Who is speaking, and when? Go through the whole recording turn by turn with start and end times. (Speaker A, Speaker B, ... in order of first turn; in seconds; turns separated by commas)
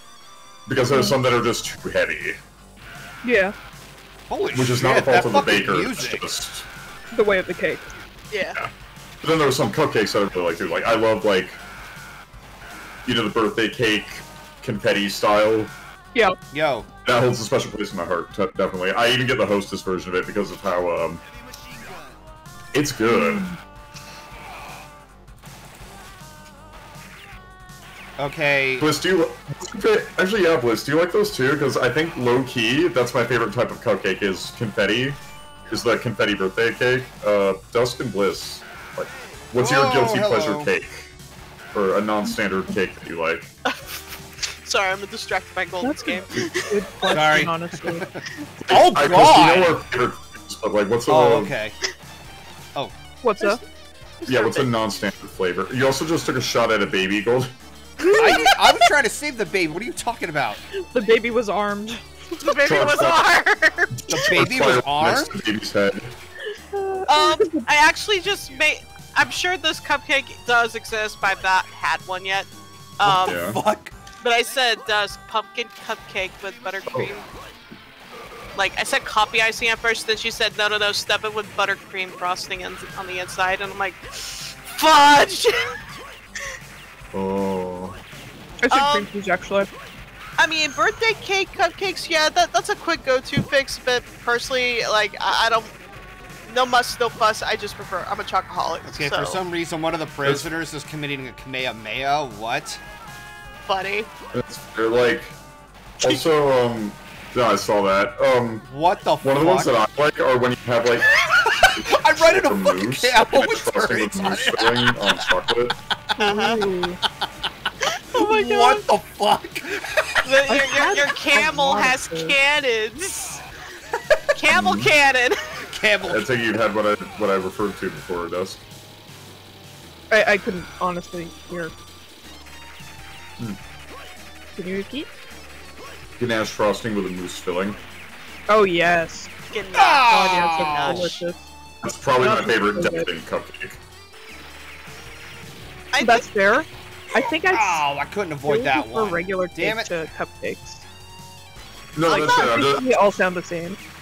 Speaker A: 0.7-2.4, Speaker B: 0.9-1.2, Speaker B: 3.2-3.5, Speaker C: 4.3-6.3, Speaker A: 4.5-6.7, Speaker B: 7.1-7.9, Speaker D: 8.3-8.6, Speaker A: 8.6-11.6, Speaker A: 13.1-15.7, Speaker C: 16.5-16.9, Speaker A: 17.1-21.2, Speaker A: 22.7-23.5, Speaker B: 23.1-23.6, Speaker C: 28.2-28.9, Speaker A: 28.8-41.1, Speaker C: 39.6-40.7, Speaker A: 41.7-43.5, Speaker D: 43.6-44.1, Speaker D: 44.6-46.7, Speaker B: 45.8-48.1, Speaker C: 47.1-49.8, Speaker A: 48.6-51.5, Speaker C: 51.1-51.8, Speaker B: 53.2-53.6, Speaker D: 54.3-54.6, Speaker A: 54.3-57.5, Speaker D: 58.1-58.5, Speaker B: 58.1-58.5, Speaker C: 58.2-60.6, Speaker B: 60.8-62.0, Speaker D: 62.4-64.1, Speaker A: 62.6-63.3, Speaker A: 63.9-66.2, Speaker C: 64.1-65.3, Speaker B: 66.7-67.7, Speaker D: 67.1-73.4, Speaker C: 73.0-73.9, Speaker A: 73.2-73.6, Speaker D: 74.2-77.3, Speaker D: 78.5-85.8, Speaker A: 87.1-88.0, Speaker B: 88.6-89.7, Speaker D: 88.7-89.1, Speaker D: 90.4-95.7, Speaker D: 96.5-99.4, Speaker C: 98.8-102.8, Speaker D: 103.7-104.1, Speaker A: 104.3-105.4, Speaker A: 106.0-108.7, Speaker C: 108.7-109.7, Speaker A: 109.2-115.8, Speaker C: 111.4-115.3, Speaker B: 116.2-117.0, Speaker D: 116.2-116.6, Speaker D: 117.8-118.8, Speaker C: 118.1-120.2, Speaker D: 120.2-123.4, Speaker B: 120.5-122.4, Speaker D: 124.3-125.5, Speaker A: 124.5-124.9, Speaker C: 125.7-126.3, Speaker A: 126.0-128.6, Speaker B: 130.1-131.7, Speaker B: 134.6-135.1, Speaker A: 136.2-137.8, Speaker B: 138.5-139.3, Speaker D: 139.5-141.1, Speaker C: 139.7-141.2, Speaker B: 140.1-141.5, Speaker A: 141.8-143.8, Speaker B: 142.2-143.1, Speaker D: 145.9-146.3, Speaker B: 146.0-147.8, Speaker C: 147.2-149.9, Speaker B: 148.5-150.8, Speaker A: 151.9-152.9, Speaker B: 152.1-153.8